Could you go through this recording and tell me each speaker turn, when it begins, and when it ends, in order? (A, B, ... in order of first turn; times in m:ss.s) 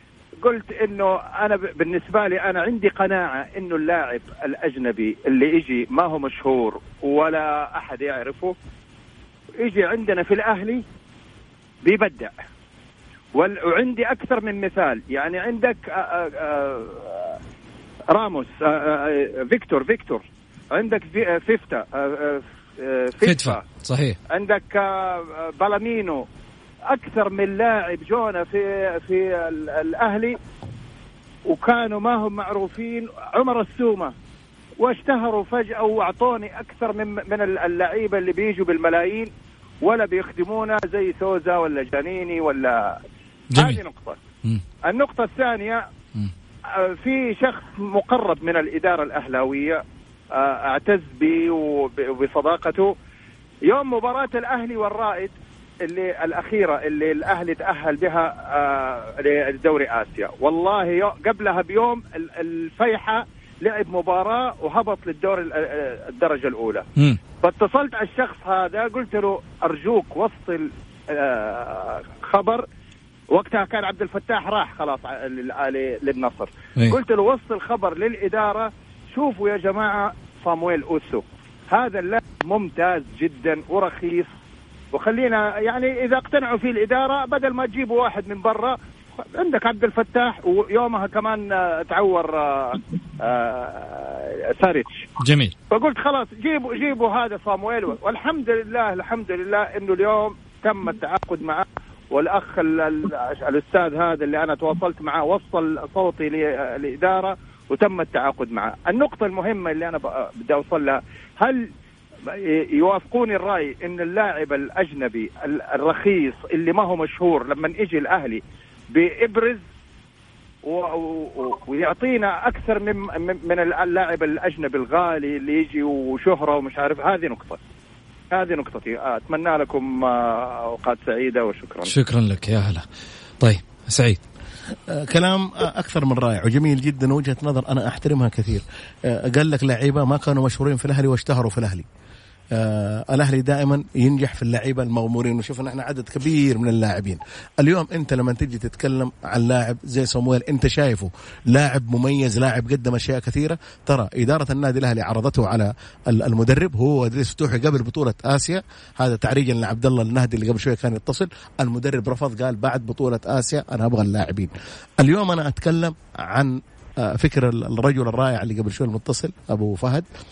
0:00.4-0:08.5 A
0:09.6-0:10.8 A
0:11.8-0:12.3 A
0:13.4-0:17.4 A
0:18.1-0:23.6 A
0:23.2-0:24.2 B
0:24.3-0:26.2 A
0:26.9-0:30.4 A
0:31.5-0:34.1 A
0:34.8-0:39.3 A
0:39.8-0:43.0 A
0:43.5-0:43.8 B
0:43.5-0:44.2 A
0:44.9-0:45.8 A
0:46.8-0:49.8 A
0:50.4-0:52.9 A
0:53.7-0:55.3 A
0:55.8-1:06.8 A
1:07.4-1:12.6 A
1:13.3-1:24.3 A
1:24.9-1:35.0 A
1:35.2-1:35.5 B
1:35.7-1:51.6 A
1:52.3-1:58.4 A
1:58.9-1:59.6 A
2:00.6-2:07.6 A
2:08.3-2:11.9 A
2:11.9-2:12.8 B
2:13.4-2:14.2 B
2:14.9-2:21.8 C
2:22.5-2:50.1 C